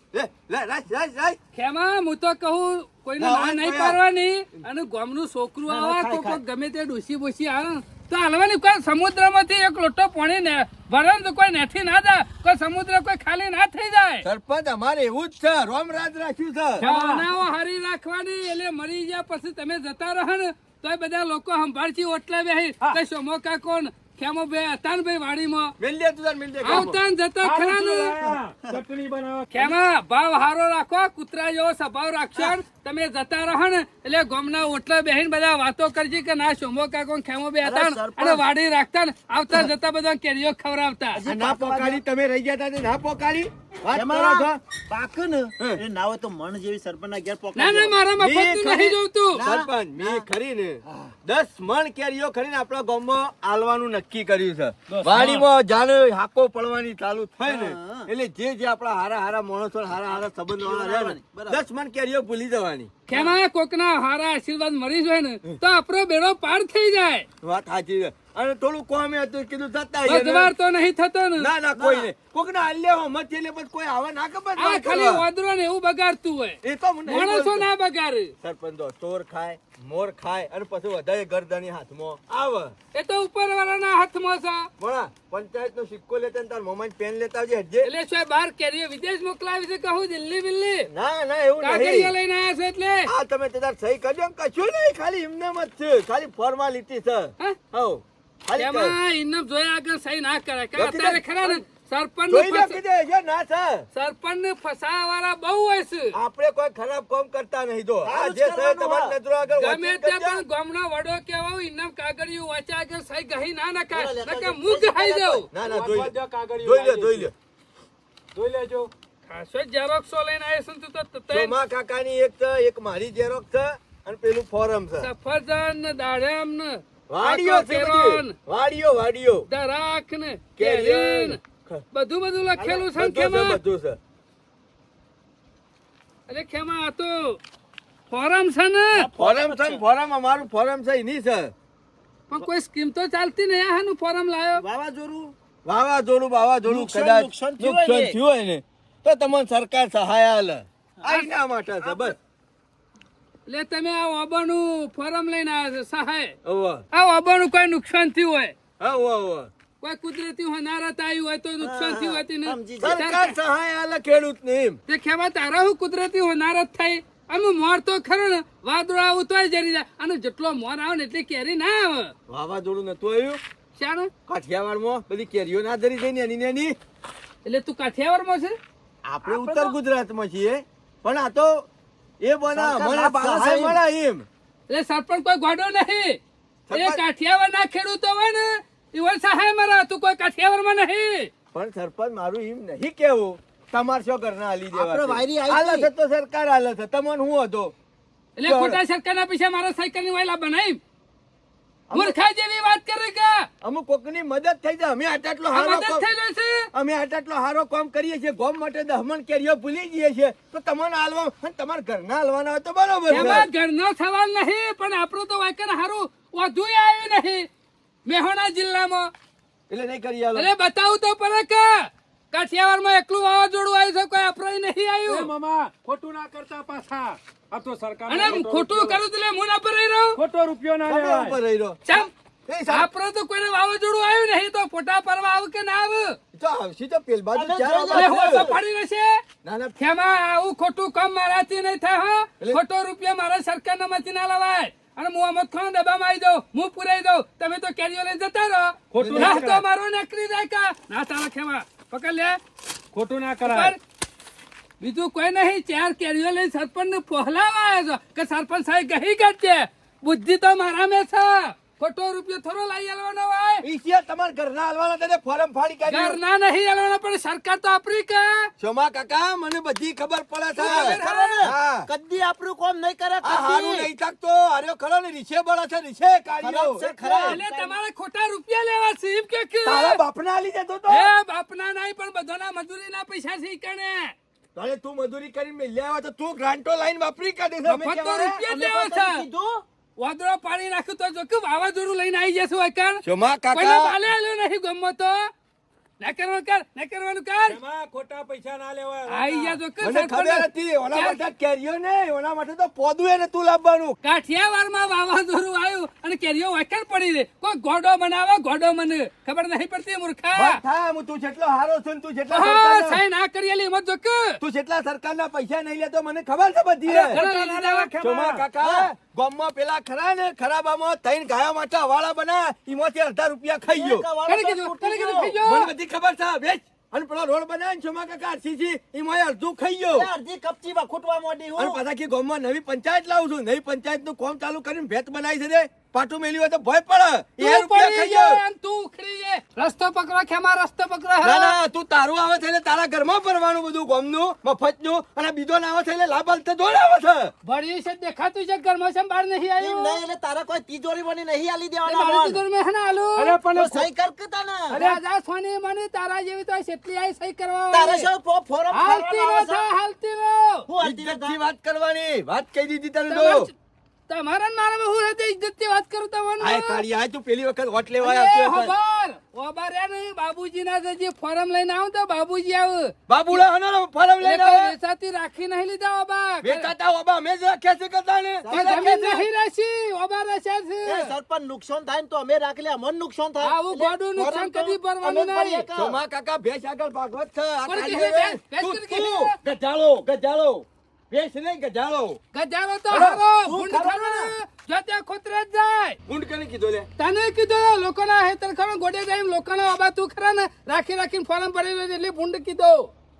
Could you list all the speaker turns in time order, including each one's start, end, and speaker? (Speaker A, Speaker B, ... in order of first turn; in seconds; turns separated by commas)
Speaker A: 0.1-1.4, Speaker B: 1.5-14.3, Speaker A: 3.2-4.0, Speaker C: 5.7-6.4, Speaker A: 14.2-16.9, Speaker D: 16.8-17.3, Speaker B: 16.8-25.7, Speaker A: 25.8-27.0, Speaker B: 26.6-28.2, Speaker D: 27.4-29.8, Speaker B: 29.5-41.2, Speaker C: 37.6-38.4, Speaker C: 41.2-42.0, Speaker A: 41.2-44.6, Speaker C: 43.9-48.0, Speaker B: 47.5-49.4, Speaker A: 48.2-62.9, Speaker C: 49.4-50.2, Speaker D: 54.9-55.4, Speaker C: 57.5-58.1, Speaker C: 60.1-61.6, Speaker B: 63.1-67.3, Speaker A: 67.4-70.5, Speaker B: 70.1-71.5, Speaker A: 71.4-75.2, Speaker C: 71.7-72.1, Speaker B: 74.6-78.3, Speaker A: 76.6-77.7, Speaker A: 78.4-82.7, Speaker B: 82.9-84.7, Speaker A: 84.8-87.9, Speaker B: 87.8-90.9, Speaker A: 90.9-92.1, Speaker B: 91.6-93.1, Speaker A: 93.0-98.9, Speaker B: 98.6-102.8, Speaker A: 100.8-101.6, Speaker A: 102.3-103.9, Speaker B: 103.9-106.2, Speaker A: 106.1-110.4, Speaker C: 108.0-109.2, Speaker B: 109.6-115.5, Speaker C: 113.9-115.5, Speaker A: 115.5-117.3, Speaker D: 115.6-117.3, Speaker D: 118.3-118.9, Speaker B: 119.3-121.5, Speaker A: 121.3-125.1, Speaker B: 125.0-128.3, Speaker A: 127.1-129.5, Speaker B: 129.5-131.4, Speaker A: 130.6-131.8, Speaker B: 131.9-133.6, Speaker C: 132.6-132.9, Speaker A: 132.9-134.0, Speaker B: 136.3-137.4, Speaker B: 138.1-139.1, Speaker C: 138.9-139.8, Speaker A: 139.2-141.5, Speaker B: 142.3-144.6, Speaker C: 144.6-145.3, Speaker A: 145.6-152.2, Speaker C: 146.7-148.2, Speaker C: 151.8-152.1, Speaker B: 153.5-156.3, Speaker A: 156.4-156.8, Speaker B: 156.9-158.5, Speaker A: 158.8-159.5, Speaker B: 159.8-163.4, Speaker C: 161.6-163.0, Speaker A: 162.8-164.8, Speaker B: 164.9-172.1, Speaker A: 172.3-173.4, Speaker B: 173.8-174.1, Speaker A: 174.3-176.8, Speaker B: 177.4-178.6, Speaker C: 179.1-179.7, Speaker A: 179.2-181.7, Speaker A: 182.2-184.2, Speaker C: 182.5-183.8, Speaker B: 184.7-186.2, Speaker A: 186.7-187.0, Speaker B: 186.7-191.3, Speaker A: 191.5-197.7, Speaker C: 194.7-195.9, Speaker B: 198.4-200.8, Speaker A: 198.4-198.8, Speaker B: 201.9-203.5, Speaker A: 203.6-206.1, Speaker B: 205.5-206.7, Speaker A: 206.7-213.5, Speaker B: 213.1-217.5, Speaker B: 218.1-219.1, Speaker A: 219.7-220.5, Speaker B: 220.3-225.3, Speaker D: 225.1-229.0, Speaker B: 228.1-230.2, Speaker D: 230.2-231.4, Speaker A: 230.8-231.8, Speaker A: 232.5-232.9, Speaker B: 232.7-236.2, Speaker A: 236.3-238.5, Speaker C: 237.3-238.6, Speaker B: 237.9-239.2, Speaker A: 239.4-239.7, Speaker B: 239.8-252.4, Speaker D: 248.9-249.6, Speaker A: 249.0-249.4, Speaker D: 252.9-253.7, Speaker B: 253.4-253.8, Speaker B: 254.8-263.6, Speaker A: 263.6-266.2, Speaker B: 265.9-268.5, Speaker A: 268.6-271.9, Speaker B: 270.6-271.4, Speaker C: 270.6-273.9, Speaker A: 273.2-277.4, Speaker C: 276.4-277.8, Speaker B: 277.2-280.0, Speaker A: 279.6-281.1, Speaker B: 280.9-284.1, Speaker A: 284.5-288.4, Speaker B: 287.7-289.2, Speaker C: 288.4-289.6, Speaker B: 290.0-295.3, Speaker A: 293.0-293.9, Speaker B: 296.0-297.6, Speaker D: 297.5-299.6, Speaker B: 299.1-301.2, Speaker A: 299.8-304.0, Speaker B: 304.0-310.6, Speaker A: 310.3-313.0, Speaker B: 312.3-314.4, Speaker A: 314.4-317.2, Speaker D: 316.9-318.4, Speaker B: 317.1-317.9, Speaker A: 318.0-324.1, Speaker C: 318.6-318.9, Speaker C: 323.7-325.3, Speaker B: 324.3-325.7, Speaker A: 325.4-330.1, Speaker C: 329.9-331.8, Speaker A: 331.6-338.4, Speaker B: 337.4-341.6, Speaker A: 341.2-347.3, Speaker B: 347.4-350.0, Speaker C: 349.6-352.4, Speaker B: 351.9-353.4, Speaker D: 353.1-353.9, Speaker C: 353.5-354.8, Speaker D: 354.7-355.0, Speaker B: 354.7-358.1, Speaker C: 357.7-359.7, Speaker B: 358.7-360.6, Speaker C: 360.7-361.4, Speaker A: 360.8-363.5, Speaker B: 363.1-363.5, Speaker B: 364.1-366.8, Speaker A: 366.4-368.7, Speaker B: 368.0-373.4, Speaker A: 373.1-374.7, Speaker B: 374.2-376.7, Speaker A: 376.4-379.3, Speaker C: 378.4-378.9, Speaker B: 378.5-381.1, Speaker C: 380.8-386.0, Speaker B: 383.4-385.7, Speaker A: 385.7-392.2, Speaker B: 387.7-389.3, Speaker B: 392.3-396.0, Speaker A: 392.9-393.2, Speaker C: 392.9-394.3, Speaker A: 396.1-396.9, Speaker B: 397.0-402.9